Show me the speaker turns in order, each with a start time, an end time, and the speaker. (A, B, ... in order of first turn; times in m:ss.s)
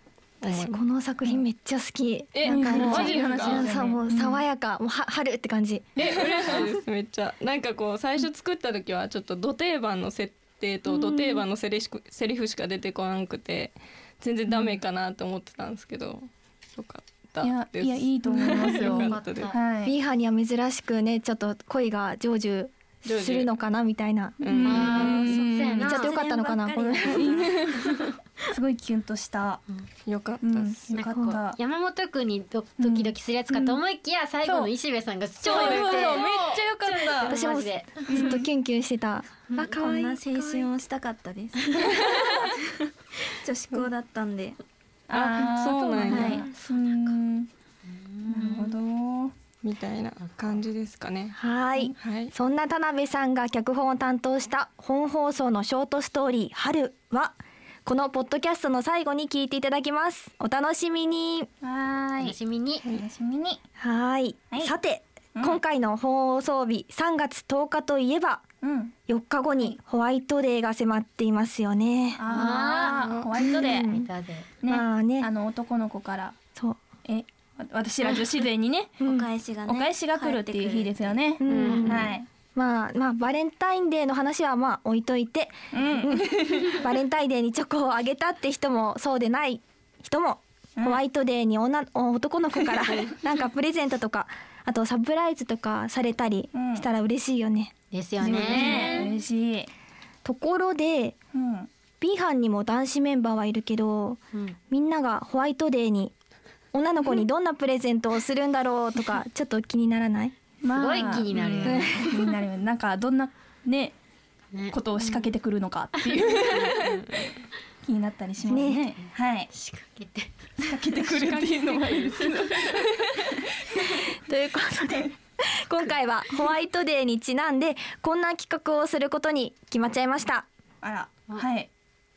0:00.4-0:00.8 A
0:00.4-0:06.2 B
0:02.3-0:04.3 A
0:02.4-0:04.0 C
0:02.9-0:03.6 D
0:06.0-0:19.5 A
0:06.1-0:06.6 C
0:10.9-0:11.4 B
0:17.4-0:20.0 C
0:18.4-0:19.6 D
0:19.8-0:25.2 B
0:23.0-0:23.5 A
0:24.4-0:25.3 A
0:24.4-0:26.1 C
0:24.6-0:28.2 D
0:25.8-0:27.6 B
0:26.5-0:27.5 E
0:27.2-0:29.6 C
0:30.1-0:30.8 A
0:30.4-0:31.6 C
0:30.9-0:38.1 D
0:32.8-0:33.8 C
0:34.4-0:34.7 C
0:35.4-0:37.4 C
0:35.4-0:36.7 A
0:37.2-0:40.2 B
0:38.1-0:38.5 C
0:39.5-0:39.9 D
0:39.8-0:41.9 E
0:42.0-0:42.3 C
0:43.4-0:44.6 E
0:45.1-0:47.5 C
0:45.1-0:46.4 A
0:46.1-0:46.4 B
0:47.8-0:48.7 D
0:48.3-0:49.3 C
0:49.6-0:51.4 A
0:51.4-1:01.5 B
0:52.0-0:52.3 A
1:01.6-1:02.4 C
1:02.2-1:02.9 D
1:02.9-1:03.6 C
1:03.8-1:08.4 B
1:08.6-1:08.9 C
1:09.1-1:12.8 B
1:12.2-1:13.9 C
1:12.3-1:14.5 D
1:13.4-1:14.1 B
1:14.6-1:16.4 C
1:14.6-1:15.3 B
1:16.6-1:16.8 B
1:17.0-1:19.1 C
1:19.0-1:21.1 E
1:19.7-1:22.3 C
1:21.4-1:37.7 B
1:21.5-1:21.9 A
1:21.5-1:22.1 D
1:25.7-1:26.8 C
1:30.8-1:31.0 C
1:36.5-1:36.9 C
1:37.9-1:39.1 D
1:38.2-1:39.7 C
1:38.3-1:39.0 B
1:40.2-1:41.2 B
1:41.3-1:41.7 C
1:42.0-1:46.1 B
1:46.7-1:50.4 B
1:50.6-1:54.0 C
1:50.7-1:52.3 D
1:51.6-1:52.0 B
1:54.5-1:55.3 D
1:54.7-1:57.0 C
1:56.5-1:57.3 A
1:57.8-1:59.5 C
1:58.5-1:59.0 B
1:59.5-2:00.6 D
2:00.6-2:04.0 C
2:04.0-2:10.5 B
2:10.8-2:11.7 C